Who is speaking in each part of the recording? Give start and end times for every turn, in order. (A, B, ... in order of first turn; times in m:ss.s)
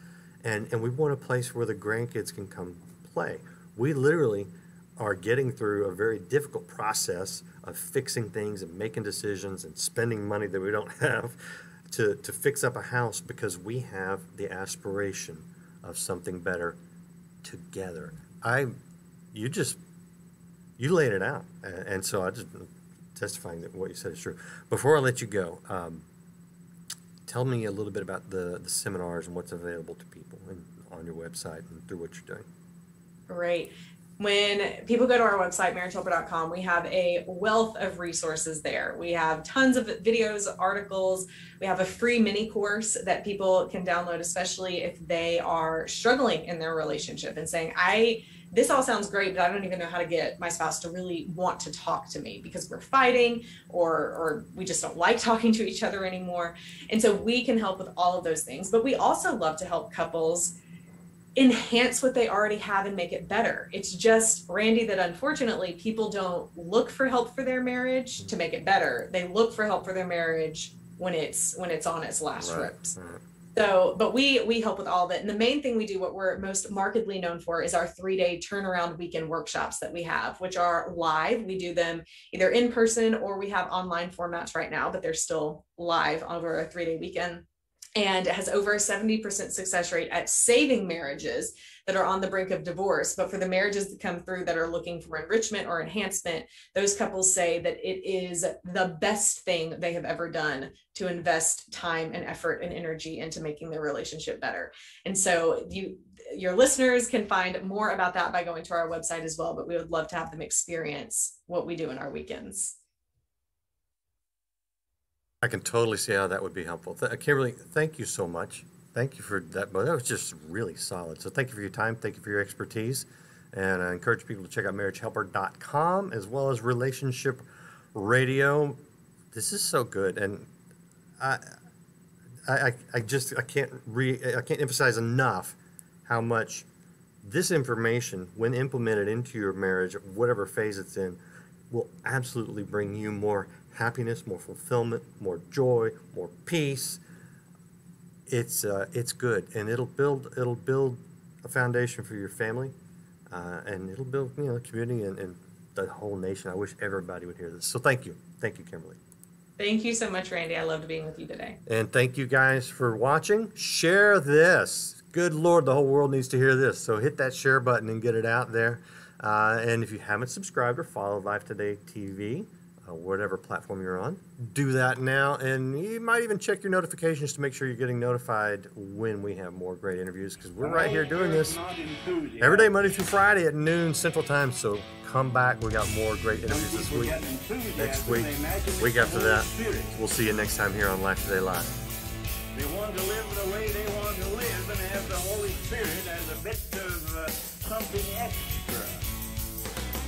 0:00.4-0:16.8 A
0:17.4-0:18.7 A
0:19.3-0:19.8 A
0:20.8-0:26.0 A
0:27.3-0:32.5 A
0:33.3-1:00.6 B
1:01.4-1:13.0 B
1:12.4-1:13.2 A
1:13.6-1:27.4 B
1:28.0-1:52.8 B
1:55.4-2:08.8 A
2:09.3-2:10.5 A
2:11.2-2:11.6 A
2:12.5-2:16.7 A
2:17.2-2:21.2 A
2:21.7-2:27.0 A
2:28.3-2:32.7 A
2:33.3-2:39.0 A
2:39.6-2:41.6 B
2:41.7-3:01.6 A
3:00.6-3:02.7 C
3:02.4-3:07.2 A
3:06.5-3:09.9 C
3:07.8-3:11.8 A
3:12.6-3:19.1 C